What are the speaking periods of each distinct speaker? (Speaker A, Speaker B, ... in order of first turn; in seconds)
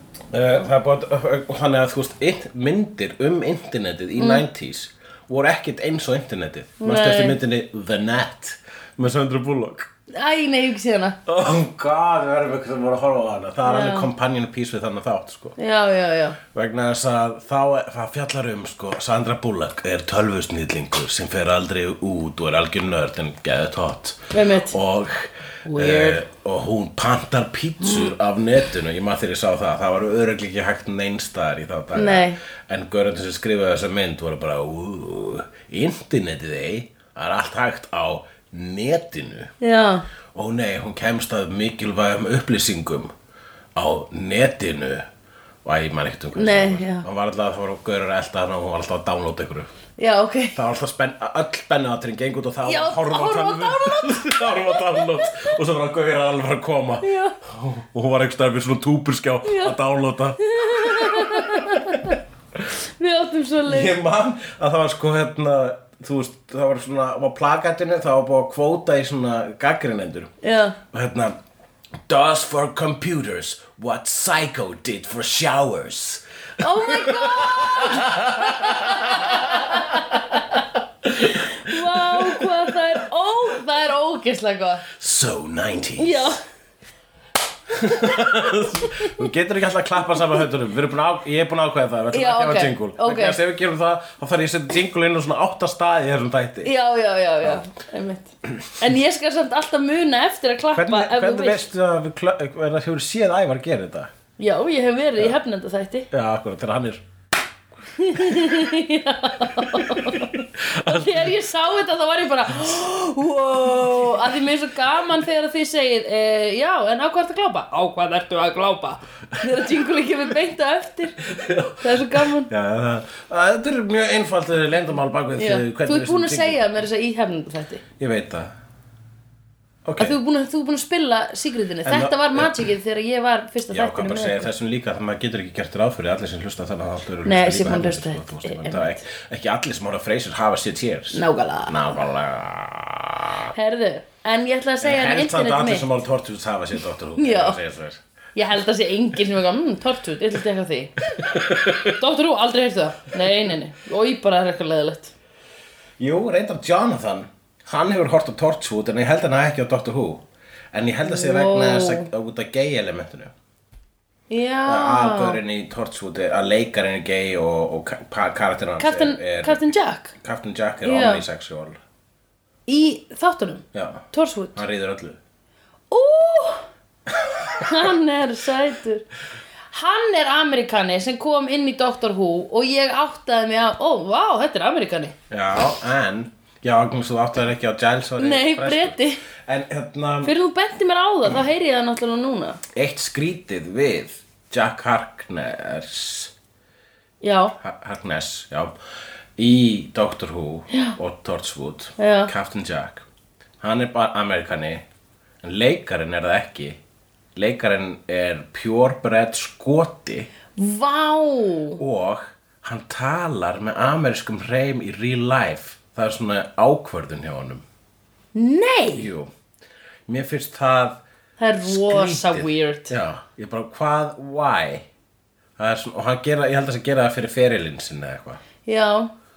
Speaker A: 0.3-9.9, 11.3-15.6, 16.5-39.5, 40.3-43.1, 43.8-45.1, 45.6-49.7, 50.5-62.1, 63.6-70.3, 70.9-71.4, 72.1-80.4, 81.0-82.8, 84.9-86.4, 87.7-96.7, 100.7-104.1, 106.1-107.0, 108.2-108.5, 109.6-111.3, 121.3-126.7, 128.0-128.5, 129.9-130.2, 131.8-132.7, 133.7-143.5, 144.8-148.0, 151.1-151.9, 156.0-163.3, 164.7-169.6, 170.2-171.8, 173.7-175.2, 177.1-177.7, 185.3-190.3, 192.7-196.3, 197.6-198.7, 199.4-203.1, 203.6-204.8, 205.4-206.8, 207.4-210.3, 211.8-217.6, 218.9-219.3, 220.1-221.0, 221.6-224.9, 225.6-228.4
Speaker B: 4.2-4.5, 6.8-7.4, 10.1-11.2, 13.7-14.1, 15.6-16.4, 24.3-24.8, 25.7-26.2, 31.9-32.4, 39.6-40.1, 46.4-47.1, 50.0-50.6, 52.6-55.4, 57.0-57.4, 59.5-59.8, 60.4-62.2, 63.0-64.0, 70.4-70.8, 76.6-80.6, 81.2-84.9, 86.0-86.4, 92.1-93.4, 96.6-101.7, 104.4-106.1, 108.0-122.5, 125.4-127.8, 130.0-134.5, 137.2-139.1, 141.1-141.9, 143.5-145.9, 147.2-147.6, 148.3-151.0, 151.9-155.1, 161.0-162.1, 164.3-165.4, 168.8-170.1, 170.8-171.2, 172.7-174.6, 175.9-176.7, 177.6-179.1, 179.7-185.2, 188.2-189.2, 190.2-192.6, 197.2-197.6, 200.7-201.0, 202.0-202.3, 210.6-211.8, 218.3-219.1, 221.4-222.9, 228.7-229.1